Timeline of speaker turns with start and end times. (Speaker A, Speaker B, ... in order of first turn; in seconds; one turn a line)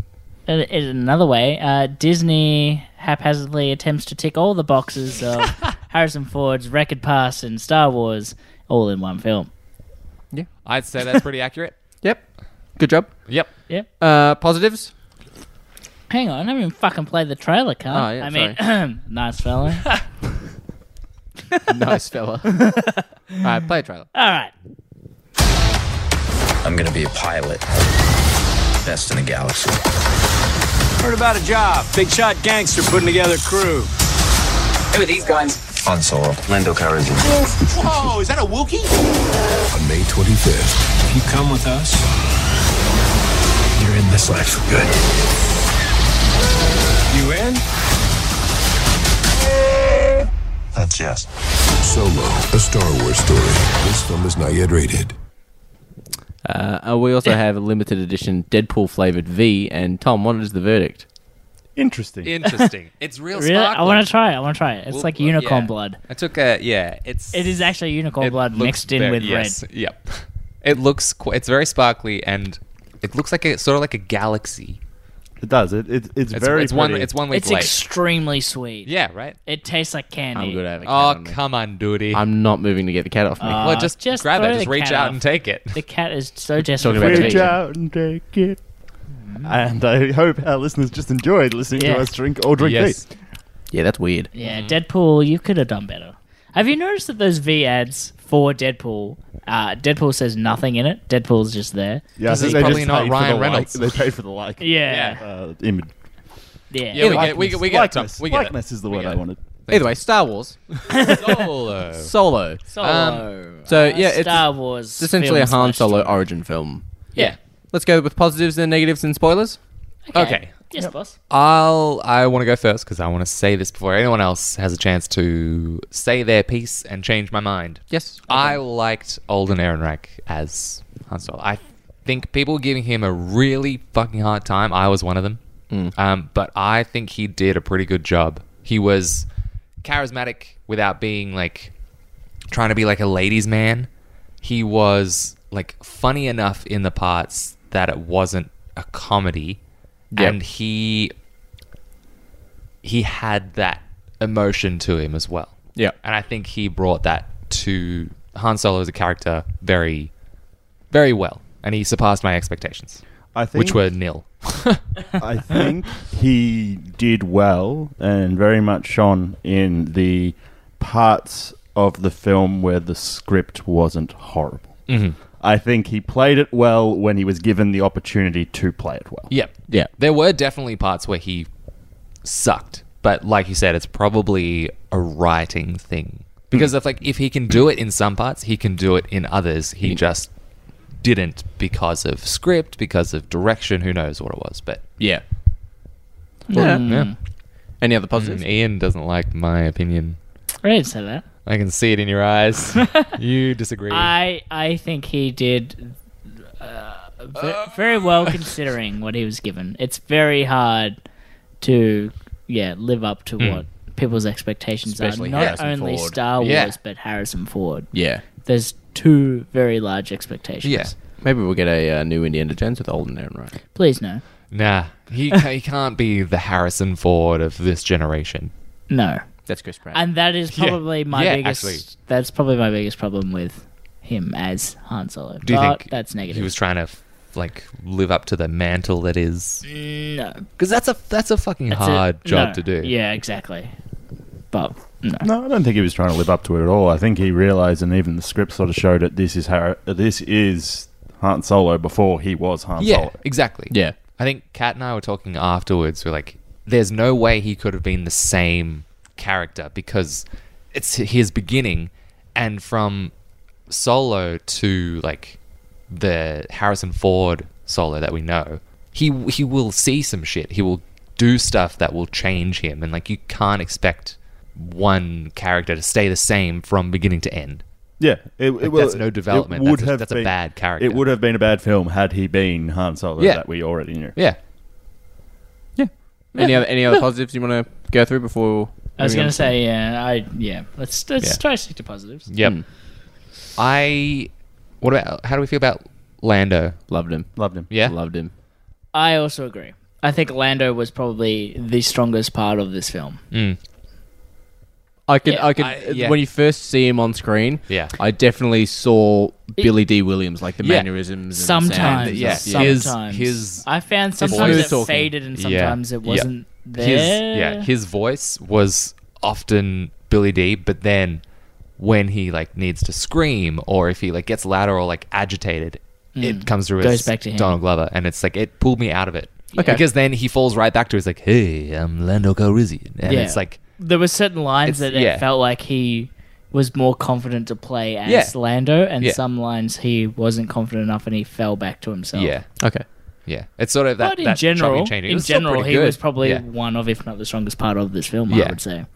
Speaker A: 0.5-9.5
Speaker B: 10.6-11.8
Speaker C: 12.8-14.9
Speaker A: 16.1-19.9
Speaker C: 17.9-18.6
Speaker C: 21.7-22.7
Speaker A: 22.5-23.4
Speaker C: 23.4-24.1
Speaker A: 24.1-24.5
Speaker D: 26.6-27.7
Speaker D: 28.8-29.8
Speaker E: 31.0-33.9
Speaker E: 34.9-35.8
Speaker D: 35.8-37.3
Speaker E: 37.2-39.0
Speaker F: 39.7-42.0
Speaker E: 41.5-41.9
Speaker F: 43.8-44.9
Speaker E: 47.1-47.6
Speaker F: 51.8-55.1
Speaker C: 56.5-61.0
Speaker G: 61.8-62.3
Speaker B: 62.2-64.1
Speaker A: 63.3-66.0
Speaker B: 64.9-74.8
Speaker A: 67.3-69.6
Speaker G: 75.4-77.1
Speaker B: 76.3-77.8
Speaker A: 77.3-78.9
Speaker B: 78.9-79.4
Speaker A: 79.5-80.6
Speaker C: 80.3-81.4
Speaker B: 80.8-82.2
Speaker C: 82.1-83.8
Speaker A: 83.4-87.5
Speaker B: 83.6-85.8
Speaker C: 86.8-87.5
Speaker G: 86.9-88.6
Speaker G: 89.4-93.0
Speaker A: 91.8-92.1
Speaker B: 92.6-93.0
Speaker C: 93.7-94.3
Speaker A: 94.3-102.8
Speaker G: 102.2-105.9
Speaker B: 102.3-104.0
Speaker A: 104.6-105.2
Speaker B: 104.9-105.2
Speaker A: 106.7-107.0
Speaker B: 106.9-109.9
Speaker C: 107.0-108.1
Speaker G: 107.0-109.4
Speaker C: 109.7-110.6
Speaker B: 110.9-112.1
Speaker A: 110.9-111.2
Speaker C: 111.9-112.6
Speaker A: 112.7-116.2
Speaker B: 112.8-113.3
Speaker C: 113.7-119.6
Speaker A: 120.1-121.2
Speaker B: 120.1-120.5
Speaker B: 121.3-135.4
Speaker C: 127.9-128.6
Speaker B: 135.9-139.3
Speaker B: 139.8-141.7
Speaker B: 142.5-143.9
Speaker B: 144.4-149.6
Speaker C: 150.1-150.4
Speaker B: 150.1-151.1
Speaker B: 152.8-160.1
Speaker B: 160.9-163.0
Speaker G: 163.3-163.8
Speaker B: 163.5-165.0
Speaker G: 165.2-179.3
Speaker B: 174.9-175.2
Speaker B: 179.3-181.5
Speaker B: 182.2-190.3
Speaker B: 190.9-194.8
Speaker A: 196.5-197.2
Speaker B: 196.5-197.1
Speaker C: 196.5-197.0
Speaker C: 197.8-198.4
Speaker B: 198.2-200.2
Speaker A: 200.6-201.3
Speaker B: 201.4-204.1
Speaker A: 203.9-206.0
Speaker A: 206.5-211.0
Speaker B: 207.4-208.4
Speaker A: 211.6-220.9
Speaker B: 213.4-213.6
Speaker C: 214.9-216.5
Speaker B: 215.3-215.6
Speaker B: 216.4-216.8
Speaker C: 217.9-218.2
Speaker B: 220.6-220.9
Speaker C: 221.2-223.5
Speaker A: 223.8-224.2
Speaker B: 224.5-228.5
Speaker A: 228.9-229.2
Speaker C: 229.5-230.0
Speaker A: 229.9-236.5
Speaker B: 230.5-231.8
Speaker B: 235.4-239.7
Speaker A: 239.7-240.4
Speaker B: 240.6-242.9
Speaker A: 241.7-243.7
Speaker A: 244.5-245.3
Speaker G: 245.2-253.2
Speaker B: 252.8-263.1
Speaker C: 253.7-254.0
Speaker B: 263.7-265.4
Speaker B: 265.9-277.6
Speaker G: 278.0-284.1
Speaker B: 278.6-281.1
Speaker B: 283.2-284.4
Speaker C: 285.8-289.5
Speaker A: 289.0-292.3
Speaker B: 292.3-292.8
Speaker C: 292.4-292.6
Speaker B: 293.6-296.8
Speaker C: 296.9-298.3
Speaker G: 297.4-297.7
Speaker B: 297.7-298.0
Speaker A: 298.9-303.2
Speaker B: 303.3-303.6
Speaker C: 305.1-312.9
Speaker B: 305.6-306.2
Speaker B: 307.7-307.9
Speaker B: 310.6-310.9
Speaker A: 311.4-317.7
Speaker B: 311.7-321.2
Speaker C: 314.2-315.1
Speaker B: 321.8-333.6
Speaker A: 326.2-327.6
Speaker A: 329.5-329.8
Speaker A: 333.0-342.4
Speaker B: 334.7-335.3
Speaker B: 338.1-339.2
Speaker B: 342.1-342.6
Speaker C: 342.6-342.9
Speaker B: 343.3-346.4
Speaker A: 344.0-348.9
Speaker B: 348.3-348.6